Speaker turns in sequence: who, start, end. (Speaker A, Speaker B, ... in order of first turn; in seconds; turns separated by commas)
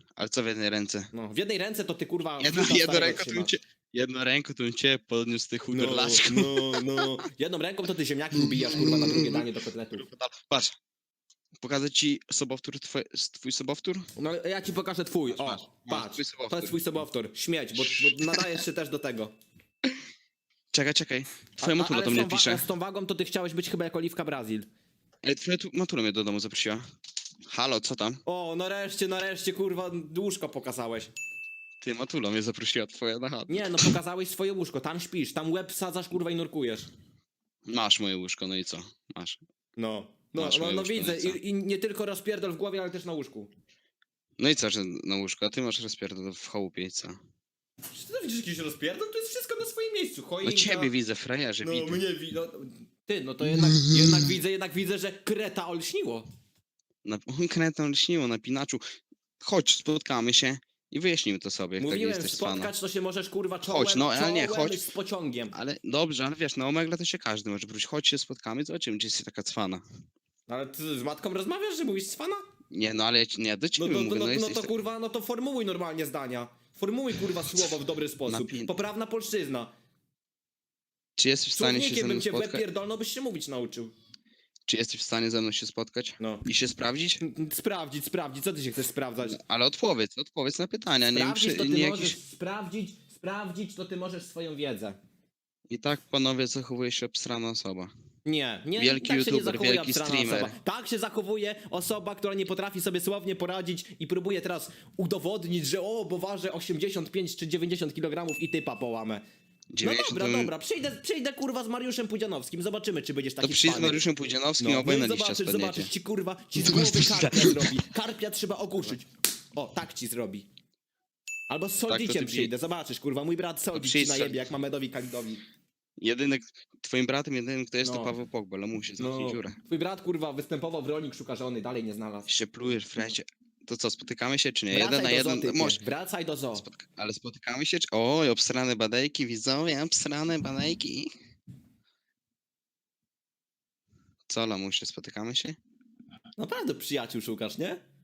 Speaker A: 0.2-1.1, Speaker B: 1.1-3.5, Speaker A: 2.4-7.2, Speaker B: 5.7-10.1, Speaker A: 8.3-10.8, Speaker A: 11.6-14.1, Speaker B: 14.2-19.3, Speaker A: 15.3-16.8, Speaker A: 17.8-18.6, Speaker A: 20.7-22.6, Speaker B: 21.6-24.7, Speaker A: 25.2-26.8, Speaker A: 27.4-28.2, Speaker B: 28.2-31.1, Speaker A: 31.8-34.0, Speaker B: 33.5-36.9, Speaker A: 37.7-39.4, Speaker B: 39.8-43.5, Speaker A: 40.3-41.4, Speaker A: 44.4-47.2, Speaker B: 47.9-50.9, Speaker A: 50.4-52.0, Speaker B: 51.6-56.2, Speaker A: 53.5-54.3, Speaker A: 57.0-58.8, Speaker A: 59.4-62.7, Speaker B: 61.8-65.5, Speaker A: 63.6-64.8, Speaker A: 65.5-69.8, Speaker B: 70.5-72.4, Speaker A: 72.7-74.7, Speaker B: 73.8-79.7, Speaker A: 78.3-78.7, Speaker A: 81.2-82.6, Speaker B: 81.6-83.9, Speaker A: 84.7-87.2, Speaker B: 86.2-86.4, Speaker B: 87.2-89.4, Speaker A: 89.2-92.2, Speaker B: 91.1-95.0, Speaker A: 95.7-97.9, Speaker B: 98.2-109.2, Speaker A: 98.8-100.5, Speaker A: 109.7-110.5, Speaker B: 109.8-114.0, Speaker A: 113.4-115.9, Speaker B: 114.6-120.5, Speaker A: 116.6-117.8, Speaker B: 121.5-125.4, Speaker A: 121.8-122.5, Speaker A: 123.7-124.5, Speaker A: 126.0-129.6, Speaker B: 127.8-128.1, Speaker B: 129.0-132.3, Speaker A: 132.2-135.8, Speaker B: 134.7-136.6, Speaker A: 136.5-141.1, Speaker A: 144.3-145.6, Speaker B: 146.4-147.8